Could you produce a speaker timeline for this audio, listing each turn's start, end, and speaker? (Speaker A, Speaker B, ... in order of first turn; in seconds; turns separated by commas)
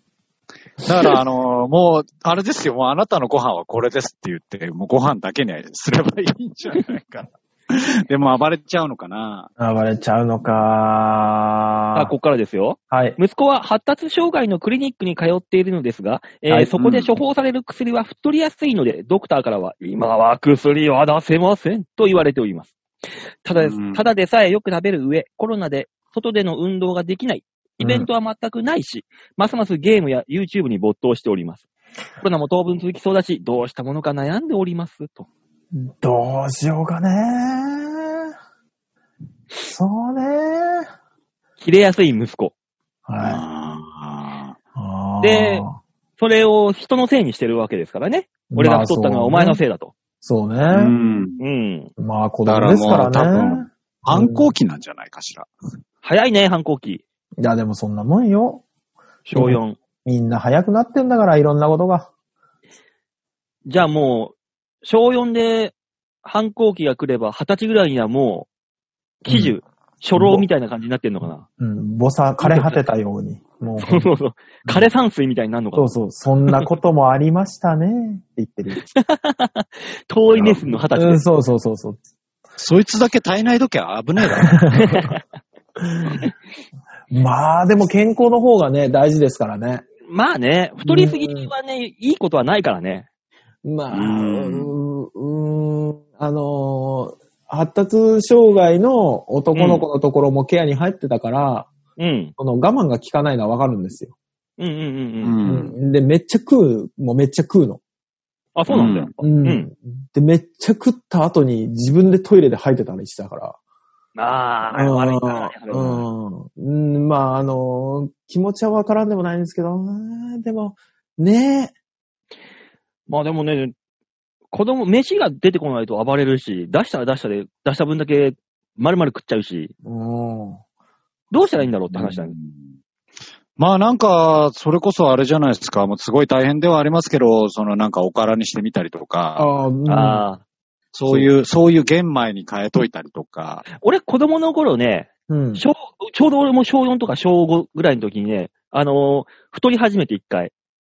Speaker A: 0.8-9.5, Speaker B: 9.6-12.1, Speaker C: 11.9-22.7, Speaker B: 12.9-13.2, Speaker A: 16.7-17.1, Speaker C: 23.4-31.6, Speaker A: 23.6-24.1, Speaker B: 27.8-28.1, Speaker C: 32.2-35.3, Speaker B: 35.7-38.3, Speaker B: 39.6-40.9, Speaker C: 41.6-42.5, Speaker B: 43.0-43.4, Speaker A: 43.2-44.5, Speaker B: 44.7-45.8, Speaker C: 45.2-45.7, Speaker C: 46.2-49.9, Speaker B: 48.5-49.6, Speaker B: 50.2-50.9, Speaker A: 50.7-51.4, Speaker C: 51.4-51.9, Speaker B: 52.0-54.5, Speaker A: 52.5-55.5, Speaker C: 56.0-57.0, Speaker B: 57.4-58.6, Speaker C: 59.2-59.8, Speaker B: 59.3-62.1, Speaker C: 63.6-68.5, Speaker C: 69.2-71.5, Speaker B: 69.3-69.5, Speaker B: 70.2-70.5, Speaker B: 71.6-74.1, Speaker C: 72.4-72.8, Speaker C: 73.8-76.7, Speaker B: 75.7-78.8, Speaker C: 78.8-81.2, Speaker A: 80.3-80.7, Speaker B: 80.9-82.0, Speaker A: 82.6-84.8, Speaker B: 84.2-85.1, Speaker C: 84.7-85.2, Speaker B: 85.8-86.2, Speaker B: 87.1-89.8, Speaker C: 90.1-93.0, Speaker B: 90.8-91.5, Speaker B: 93.6-101.7, Speaker A: 93.9-94.7, Speaker C: 99.5-99.8, Speaker C: 102.0-102.3, Speaker B: 102.4-104.1, Speaker C: 104.6-105.4, Speaker A: 105.2-105.7, Speaker B: 105.4-107.8, Speaker C: 108.5-109.7, Speaker A: 108.7-109.1, Speaker B: 109.2-113.6, Speaker C: 114.1-116.0, Speaker B: 114.7-121.7, Speaker C: 123.1-123.7, Speaker C: 124.5-129.7, Speaker B: 129.8-130.6, Speaker C: 131.3-132.3, Speaker A: 131.9-132.6, Speaker A: 133.6-139.5, Speaker B: 139.4-140.2, Speaker C: 139.8-140.4, Speaker A: 140.9-143.6, Speaker C: 143.8-150.5, Speaker B: 145.3-145.6